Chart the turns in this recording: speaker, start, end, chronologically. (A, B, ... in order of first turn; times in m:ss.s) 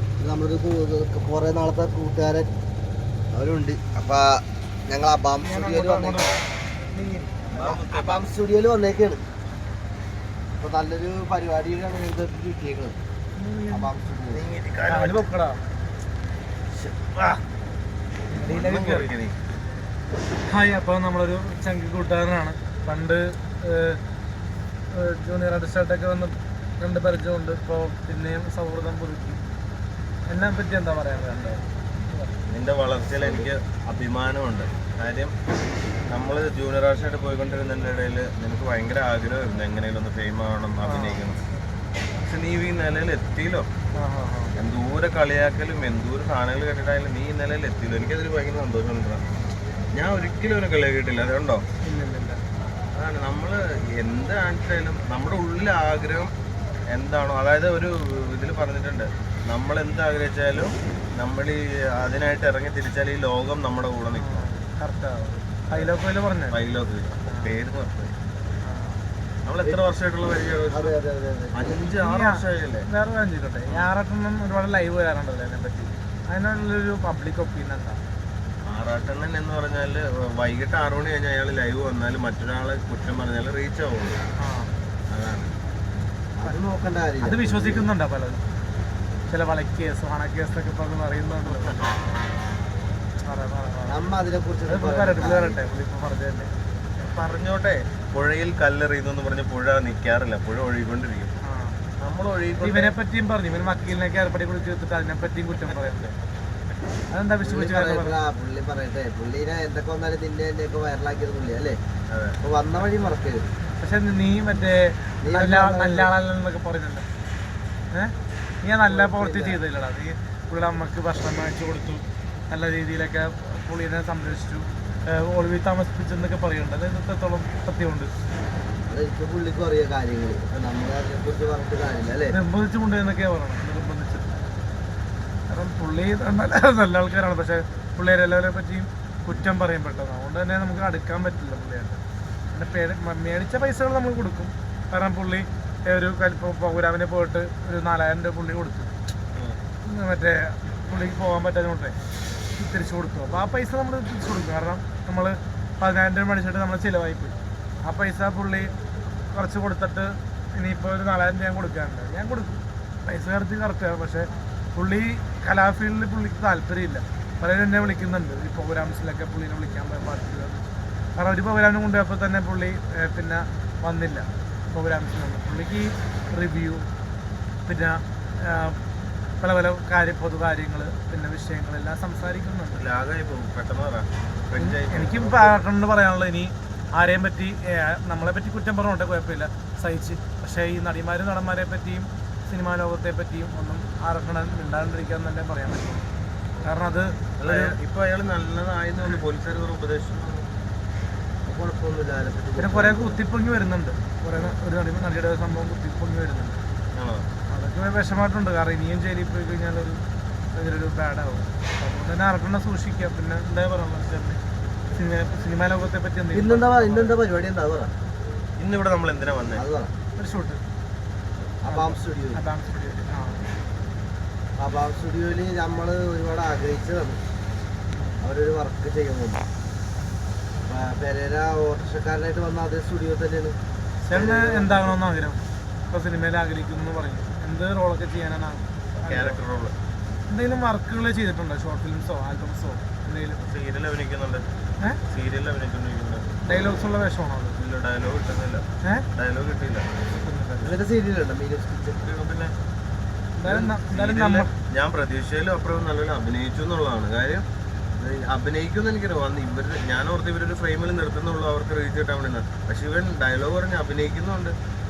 0:00.2-0:02.5 A
0:03.3-0:06.3 A
0:05.4-0:07.3 B
0:07.5-0:08.3 C
0:07.5-0:09.2 A
0:10.6-0:13.0 A
0:13.4-0:13.9 B
0:13.7-0:14.4 A
0:14.3-0:15.2 C
0:14.9-0:15.6 B
0:16.8-0:17.4 C
0:18.3-0:19.1 B
0:18.4-0:19.4 C
0:20.4-0:24.0 B
0:24.9-0:29.4 B
0:30.3-0:32.3 B
0:32.5-0:35.3 C
0:33.2-0:33.5 A
0:36.1-0:41.4 C
0:40.8-0:41.2 B
0:42.2-0:43.7 C
0:43.9-0:44.5 B
0:44.6-0:49.2 C
0:49.9-0:51.6 C
0:51.8-0:52.4 B
0:52.9-0:56.3 C
0:56.9-1:04.5 C
1:04.1-1:06.6 B
1:06.5-1:08.2 C
1:07.3-1:07.6 B
1:08.6-1:09.0 B
1:09.4-1:11.0 C
1:10.7-1:11.7 A
1:11.5-1:12.9 C
1:12.0-1:18.0 B
1:18.6-1:24.2 C
1:24.4-1:24.7 B
1:25.1-1:25.5 C
1:26.4-1:27.9 A
1:27.2-1:28.4 B
1:29.3-1:32.0 B
1:31.4-1:31.8 C
1:33.2-1:34.0 B
1:33.9-1:35.6 A
1:34.7-1:36.5 B
1:37.0-1:41.3 C
1:41.4-1:41.8 B
1:42.0-1:42.9 C
1:42.6-1:46.1 B
1:47.1-1:48.1 B
1:47.4-1:51.8 A
1:52.1-1:52.4 C
1:52.4-1:53.5 A
1:53.8-1:57.0 B
1:55.2-1:56.1 A
1:57.9-2:08.1 B
1:58.8-1:59.6 A
2:08.8-2:12.3 A
2:12.3-2:14.3 B
2:15.5-2:22.0 B
2:22.5-2:28.9 B
2:29.8-2:32.0 B
2:32.5-2:38.7 B
2:39.2-2:56.8 B
2:57.6-2:58.8 B
2:59.4-3:02.8 B
3:02.7-3:05.6 C
3:04.6-3:16.1 B
3:16.6-3:17.7 B
3:17.4-3:20.5 C
3:21.4-3:23.2 A
3:22.6-3:26.6 B
3:26.9-3:27.3 C
3:27.5-3:30.0 B
3:30.5-3:37.2 B
3:36.3-3:37.9 A
3:38.6-3:39.6 C
3:39.5-3:39.9 A
3:40.2-3:40.6 B
3:41.6-3:42.4 A
3:41.7-3:43.5 B
3:44.6-3:47.2 A
3:47.9-3:48.2 B
3:48.2-3:49.4 A
3:50.6-3:53.6 A
3:54.0-3:59.4 B
3:54.1-3:55.0 A
3:59.1-3:59.8 C
4:00.3-4:03.4 B
4:03.4-4:04.4 C
4:05.1-4:06.2 C
4:06.4-4:07.6 B
4:07.6-4:10.0 C
4:10.2-4:10.8 B
4:10.6-4:12.1 A
4:12.0-4:12.5 C
4:13.4-4:14.5 B
4:13.4-4:17.4 C
4:18.0-4:24.6 C